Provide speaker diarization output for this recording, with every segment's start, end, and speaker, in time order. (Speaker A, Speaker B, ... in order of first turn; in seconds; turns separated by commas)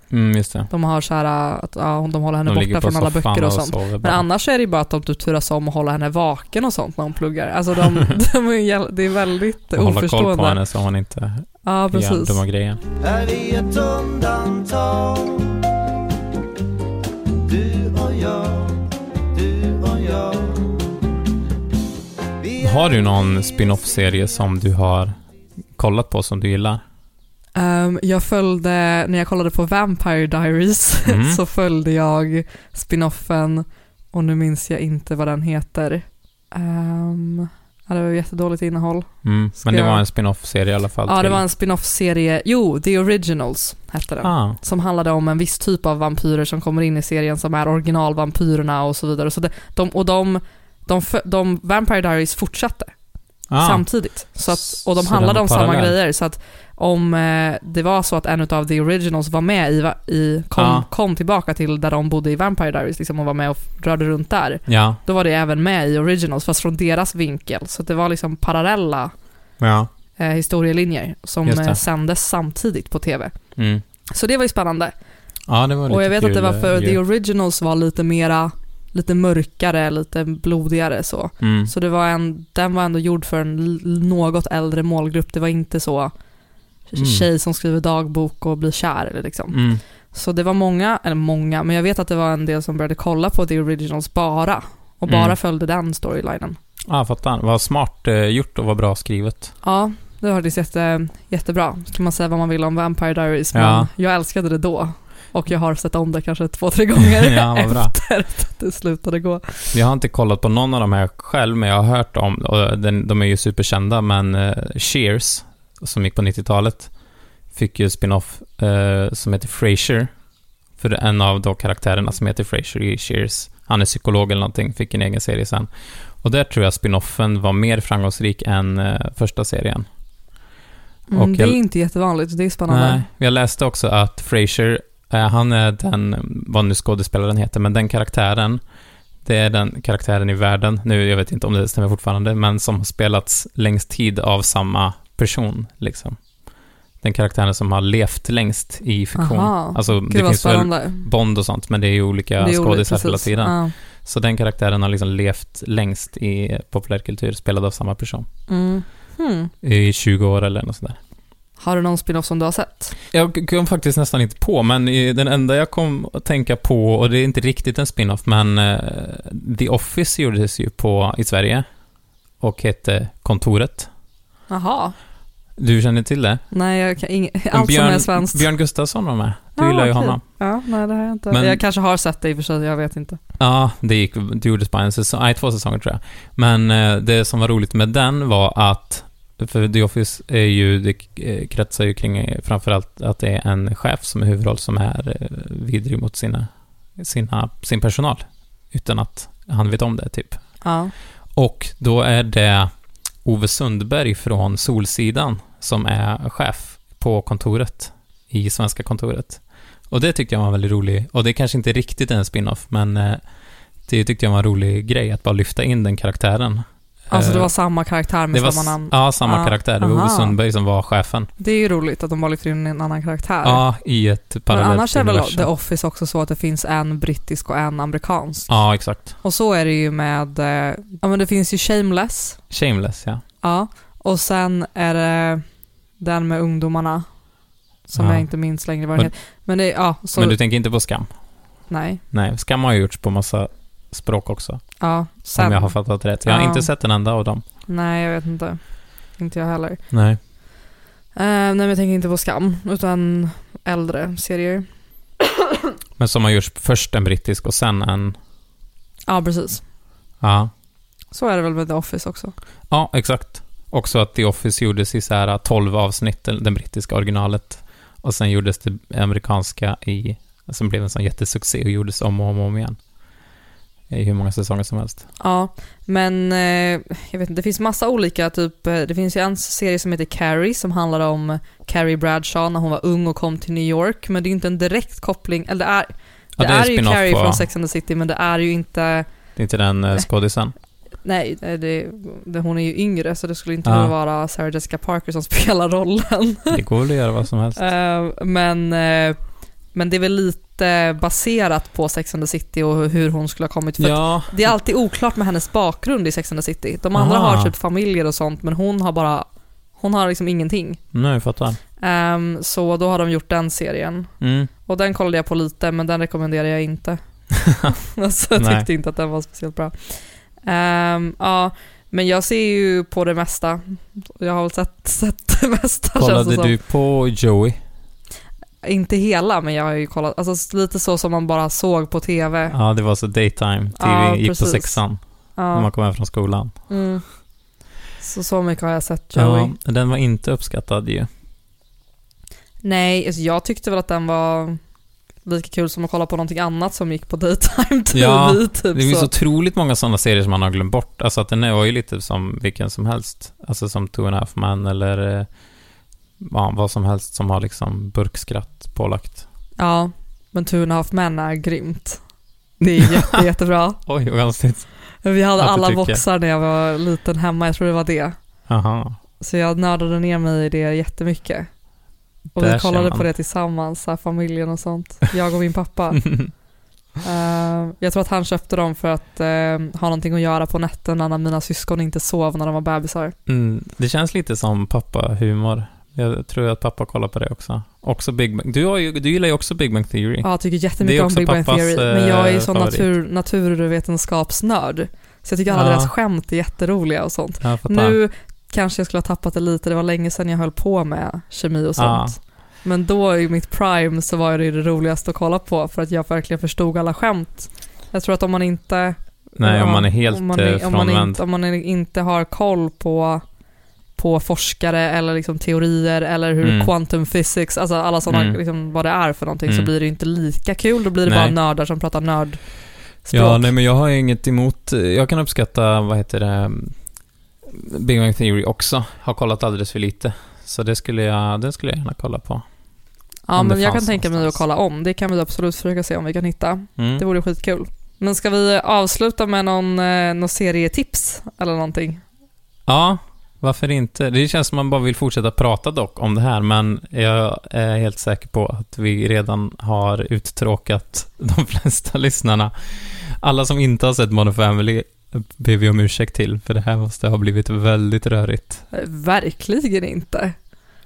Speaker A: 0.1-0.7, Speaker B: 0.7-10.6, Speaker A: 2.5-4.2, Speaker A: 9.8-12.8, Speaker B: 11.7-12.4, Speaker C: 13.0-15.6, Speaker C: 17.4-20.8, Speaker C: 22.4-22.8, Speaker A: 22.6-25.1, Speaker A: 25.8-26.8, Speaker B: 27.6-39.1, Speaker A: 31.1-31.4, Speaker A: 39.2-41.4, Speaker B: 39.6-40.0, Speaker B: 41.1-52.9, Speaker A: 44.2-44.6, Speaker A: 53.5-53.8, Speaker B: 53.6-69.1, Speaker A: 54.5-55.9, Speaker A: 60.6-60.9, Speaker A: 64.7-65.0, Speaker A: 69.6-69.9, Speaker B: 70.2-73.3, Speaker A: 71.5-71.8, Speaker A: 73.6-73.8, Speaker B: 74.1-74.9, Speaker A: 75.5-77.0, Speaker B: 75.9-86.1, Speaker A: 81.4-81.7, Speaker B: 86.9-89.6, Speaker A: 87.0-87.3, Speaker A: 89.5-89.8, Speaker B: 90.1-96.6, Speaker A: 95.1-95.3, Speaker A: 96.9-99.5, Speaker B: 99.6-109.8, Speaker A: 103.5-103.9, Speaker A: 107.1-107.9, Speaker A: 109.7-116.9, Speaker A: 117.5-120.1, Speaker A: 120.8-125.7, Speaker A: 126.2-129.9, Speaker B: 131.1-133.0, Speaker A: 131.1-131.6, Speaker A: 132.7-138.6, Speaker A: 139.2-146.2, Speaker A: 147.0-158.3, Speaker B: 149.2-151.1, Speaker B: 152.4-153.7, Speaker B: 158.5-159.5, Speaker A: 159.6-161.0, Speaker B: 161.6-162.9, Speaker A: 163.1-171.7, Speaker A: 172.4-173.9, Speaker B: 174.5-174.9, Speaker A: 175.6-176.4, Speaker B: 176.5-178.5, Speaker A: 177.5-180.2, Speaker B: 179.6-183.2, Speaker A: 181.3-181.6, Speaker A: 183.4-200.4, Speaker B: 200.6-200.9, Speaker A: 201.4-202.7, Speaker A: 203.2-213.2, Speaker A: 213.9-217.5, Speaker B: 217.1-220.3, Speaker A: 218.3-221.3, Speaker B: 221.4-223.6, Speaker A: 223.4-225.5, Speaker B: 224.5-228.5, Speaker A: 228.5-229.1, Speaker B: 229.2-232.4, Speaker A: 232.5-233.2, Speaker B: 233.4-235.4, Speaker B: 236.0-237.1, Speaker B: 237.9-240.4, Speaker A: 238.0-238.3, Speaker A: 240.2-241.1, Speaker B: 241.7-242.0, Speaker A: 242.1-244.6, Speaker B: 244.8-245.7, Speaker A: 245.4-247.4, Speaker B: 246.2-246.7, Speaker B: 247.7-248.6, Speaker B: 249.2-249.8, Speaker A: 249.9-250.2, Speaker B: 251.2-254.7, Speaker A: 256.0-258.2, Speaker B: 259.1-259.6, Speaker A: 260.2-260.5, Speaker B: 261.1-262.3, Speaker A: 262.7-272.8, Speaker A: 273.9-275.0, Speaker B: 275.2-289.1, Speaker A: 286.4-287.4, Speaker A: 289.4-290.5, Speaker B: 291.0-296.6, Speaker A: 293.6-293.9, Speaker A: 296.5-297.6, Speaker B: 297.6-299.2, Speaker B: 299.8-309.3, Speaker A: 303.8-304.4, Speaker A: 306.9-307.5, Speaker B: 309.8-310.8, Speaker A: 310.9-311.6, Speaker B: 311.8-314.1, Speaker A: 314.2-314.5, Speaker B: 314.7-317.0, Speaker A: 317.4-317.7, Speaker B: 317.6-326.5, Speaker A: 318.4-318.7, Speaker A: 326.0-327.6, Speaker B: 328.6-332.6, Speaker A: 332.5-335.0, Speaker B: 333.8-334.8, Speaker B: 335.4-335.7, Speaker A: 335.5-336.5, Speaker B: 336.7-337.0, Speaker B: 338.0-339.5, Speaker A: 339.2-341.1, Speaker B: 342.6-344.6, Speaker B: 345.2-349.1, Speaker A: 347.9-355.3, Speaker A: 356.2-359.2, Speaker B: 359.6-362.0, Speaker B: 362.6-363.8, Speaker A: 363.9-364.7, Speaker B: 365.0-368.2, Speaker A: 365.4-366.0, Speaker A: 368.5-369.0, Speaker B: 369.2-371.5, Speaker B: 372.4-376.1, Speaker A: 372.4-373.1, Speaker B: 377.0-383.1, Speaker A: 383.3-390.3, Speaker B: 390.2-413.2, Speaker A: 390.8-392.9, Speaker A: 395.5-395.9, Speaker A: 397.4-398.0, Speaker A: 401.8-402.2, Speaker A: 409.4-411.2, Speaker B: 414.0-422.4, Speaker A: 416.4-416.7, Speaker A: 418.1-418.4, Speaker A: 421.1-421.3, Speaker B: 423.1-423.5, Speaker A: 423.1-426.8, Speaker A: 427.5-432.4, Speaker B: 433.3-442.0, Speaker A: 433.4-434.4, Speaker A: 436.8-437.0, Speaker A: 442.7-458.6, Speaker B: 458.7-460.4